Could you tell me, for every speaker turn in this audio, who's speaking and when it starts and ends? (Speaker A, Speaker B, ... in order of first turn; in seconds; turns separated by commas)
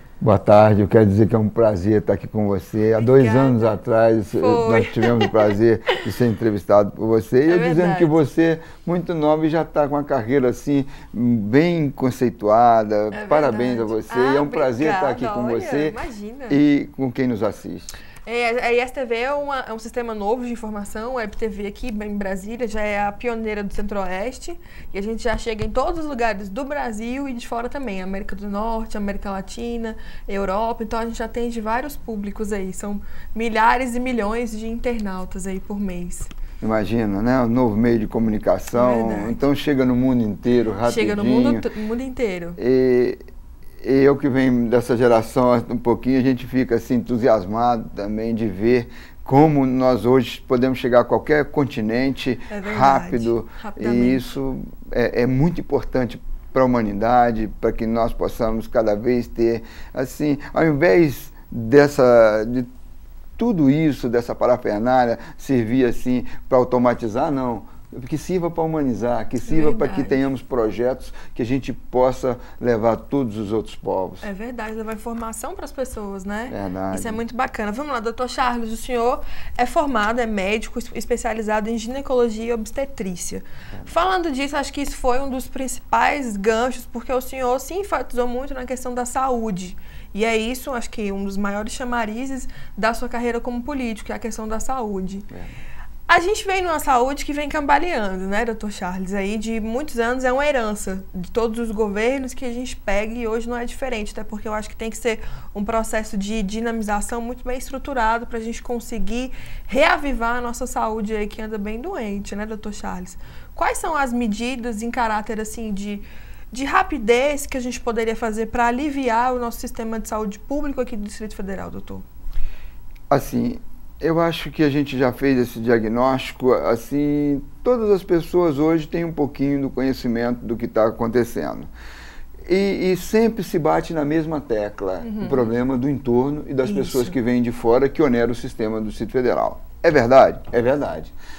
Speaker A: 0.2-16.0, Speaker B: 3.0-3.8, Speaker B: 4.3-5.5, Speaker B: 7.5-8.2, Speaker B: 13.1-16.6, Speaker A: 16.5-18.0, Speaker B: 18.2-36.3, Speaker A: 36.6-41.7, Speaker B: 38.7-39.4, Speaker B: 40.8-42.6, Speaker A: 42.6-43.2, Speaker A: 43.8-62.7, Speaker B: 52.5-54.3, Speaker A: 63.4-74.3, Speaker B: 69.4-70.2, Speaker B: 74.2-95.3, Speaker A: 76.5-77.2, Speaker B: 96.1-122.0, Speaker A: 123.1-131.7, Speaker A: 132.4-141.1, Speaker B: 135.0-135.5, Speaker B: 136.6-137.1